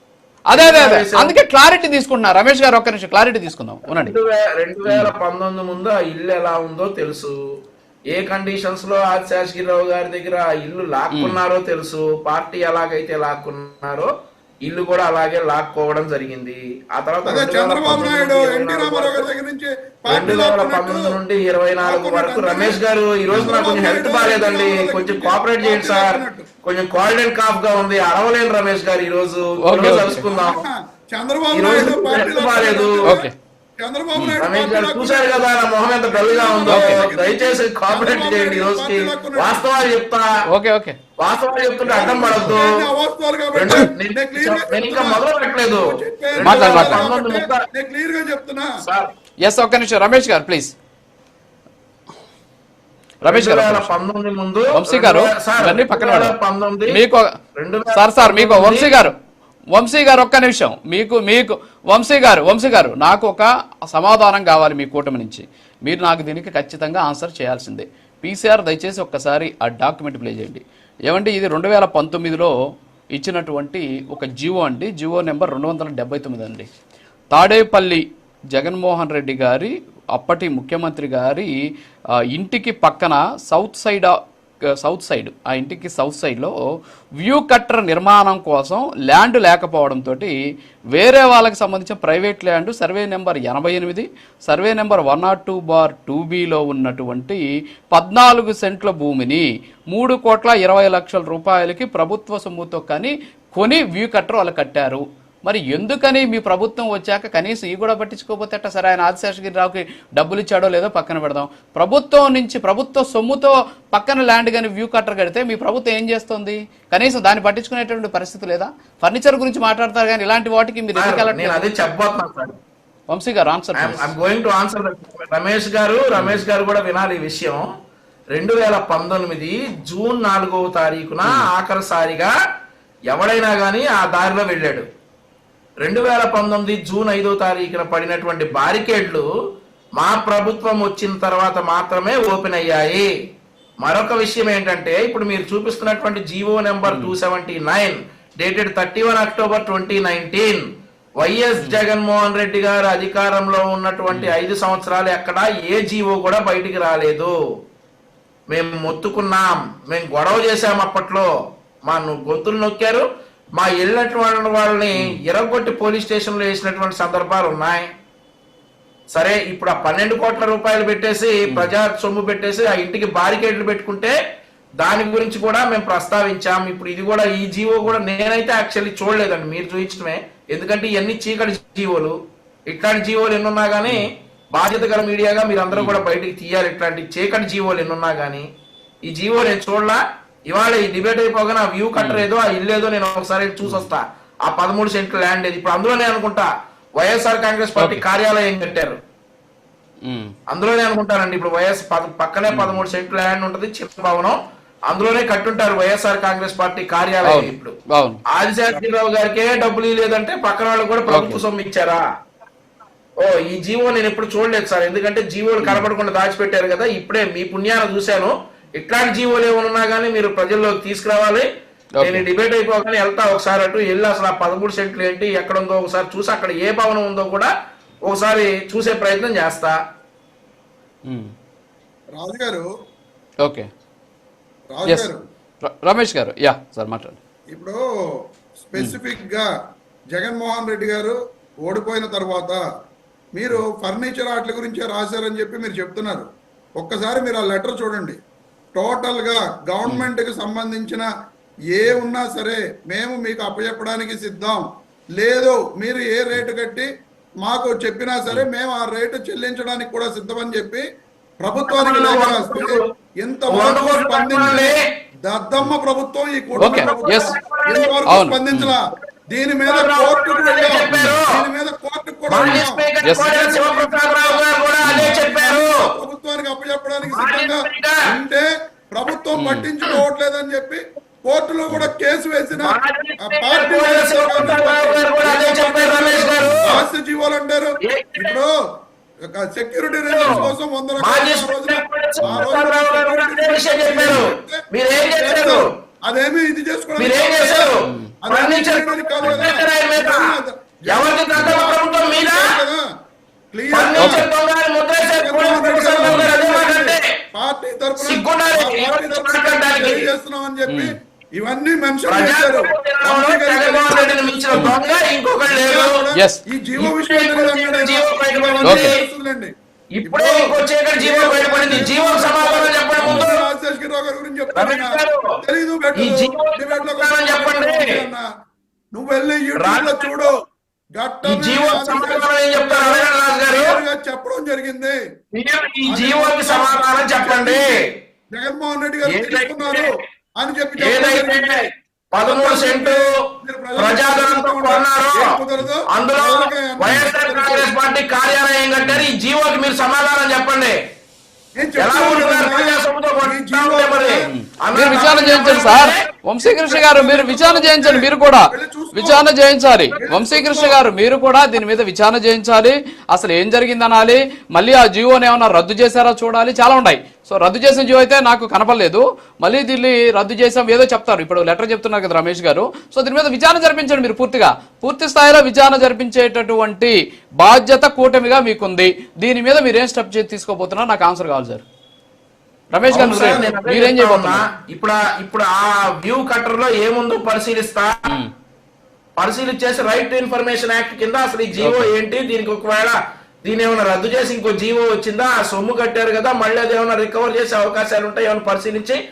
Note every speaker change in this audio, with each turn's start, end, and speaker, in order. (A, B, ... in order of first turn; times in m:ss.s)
0:00.5-0:04.1 A
0:00.5-0:01.4 B
0:03.9-0:07.4 B
0:04.8-0:05.1 A
0:08.1-0:14.1 B
0:11.1-0:11.4 A
0:14.6-0:19.3 B
0:17.2-0:21.0 C
0:20.1-0:30.6 B
0:21.8-0:22.8 C
0:23.3-0:26.5 C
0:29.6-0:30.2 A
0:30.3-0:33.2 C
0:31.5-0:33.2 B
0:33.0-0:33.3 A
0:33.8-0:35.4 C
0:34.4-0:40.3 B
0:36.0-0:39.6 C
0:36.6-0:37.0 A
0:40.5-0:41.0 A
0:41.2-0:42.8 B
0:41.8-0:48.7 C
0:43.6-0:47.6 B
0:46.4-0:47.0 A
0:48.8-0:49.1 B
0:49.4-0:50.7 A
0:53.2-0:53.9 A
0:53.3-0:57.0 B
0:54.7-0:56.3 A
0:56.9-0:57.3 A
0:57.6-0:59.0 B
0:57.9-0:59.1 A
0:59.7-1:12.5 A
1:13.1-1:16.7 A
1:17.3-1:21.5 A
1:22.3-1:24.2 A
1:24.8-1:26.5 A
1:27.2-1:30.3 A
1:30.9-2:01.7 A
2:01.0-2:02.6 B
2:03.1-2:04.1 A
2:03.8-2:07.7 B
2:06.2-2:06.4 A
2:08.3-2:12.3 B
2:13.1-2:14.8 B
2:15.8-2:19.2 B
2:20.0-2:23.1 B
2:23.8-2:30.6 B
2:26.8-2:27.1 A
2:31.2-2:37.3 B
2:34.1-2:34.3 A
2:38.5-2:41.3 B
2:41.9-2:43.0 B
2:43.6-2:47.8 B
2:49.1-2:54.1 B
2:51.4-2:51.7 A
2:54.8-3:02.1 B
3:02.7-3:08.5 B
3:05.7-3:06.0 A
3:09.1-3:19.0 B
3:12.0-3:12.2 A
3:17.8-3:18.0 A
3:20.0-3:20.3 A
3:20.5-3:24.4 B
3:22.5-3:22.8 A
3:24.9-3:27.7 B
3:27.2-3:28.2 A
3:28.3-3:32.0 B
3:31.1-3:31.4 A
3:33.2-3:41.5 B
3:42.0-3:42.2 A
3:42.0-3:47.5 B
3:48.0-3:49.8 B
3:52.1-3:52.7 C
3:54.7-3:55.2 C
3:55.6-3:57.2 A
3:57.5-3:57.8 C
3:58.6-3:59.5 C
4:00.1-4:02.6 C
4:03.3-4:06.3 C
4:06.8-4:08.2 C
4:08.7-4:11.1 C
4:11.7-4:14.6 C
4:15.2-4:16.9 C
4:17.4-4:20.8 C
4:21.4-4:24.7 C
4:21.7-4:22.8 B
4:23.5-4:24.8 B
4:25.2-4:48.5 C
4:26.6-4:27.3 A
4:26.6-4:28.1 B
4:28.1-4:28.7 A
4:29.7-4:31.2 B
4:30.9-4:31.2 A
4:32.3-4:35.7 B
4:32.4-4:33.3 A
4:34.8-4:35.2 A
4:37.1-4:38.0 B
4:39.3-4:39.7 A
4:42.6-4:46.8 B
4:46.4-4:46.7 A
4:47.9-4:48.3 B
4:49.3-5:02.8 C
4:50.1-4:55.6 B
4:50.3-4:50.5 A
4:57.0-5:00.3 B
4:57.8-4:58.1 A
5:00.9-5:02.5 B
5:03.5-5:04.3 C
5:03.7-5:07.0 B
5:04.0-5:04.2 A
5:05.2-5:14.8 C
5:06.0-5:06.3 A
5:08.0-5:10.1 B
5:10.7-5:10.9 A
5:12.1-5:16.0 B
5:15.4-5:19.5 C
5:16.8-5:19.0 B
5:18.6-5:18.9 A
5:20.0-5:23.4 B
5:20.0-5:28.3 C
5:24.5-5:25.2 B
5:26.0-5:28.0 B
5:28.9-5:30.4 C
5:29.6-5:30.2 B
5:31.0-5:35.0 C
5:31.3-5:33.7 B
5:35.3-5:37.7 B
5:35.8-5:41.7 C
5:39.1-5:39.9 B
5:40.8-5:41.6 B
5:42.1-5:43.0 B
5:42.2-5:47.7 C
5:43.8-5:45.4 B
5:45.9-5:50.8 B
5:48.8-5:49.1 A
5:51.6-5:54.3 C
5:51.8-5:56.0 B
5:54.3-6:21.6 A
5:56.4-5:59.3 C
5:59.9-6:00.8 C
6:22.7-6:24.4 A
6:22.9-6:28.0 B
6:29.2-6:39.0 B
6:31.6-6:31.9 A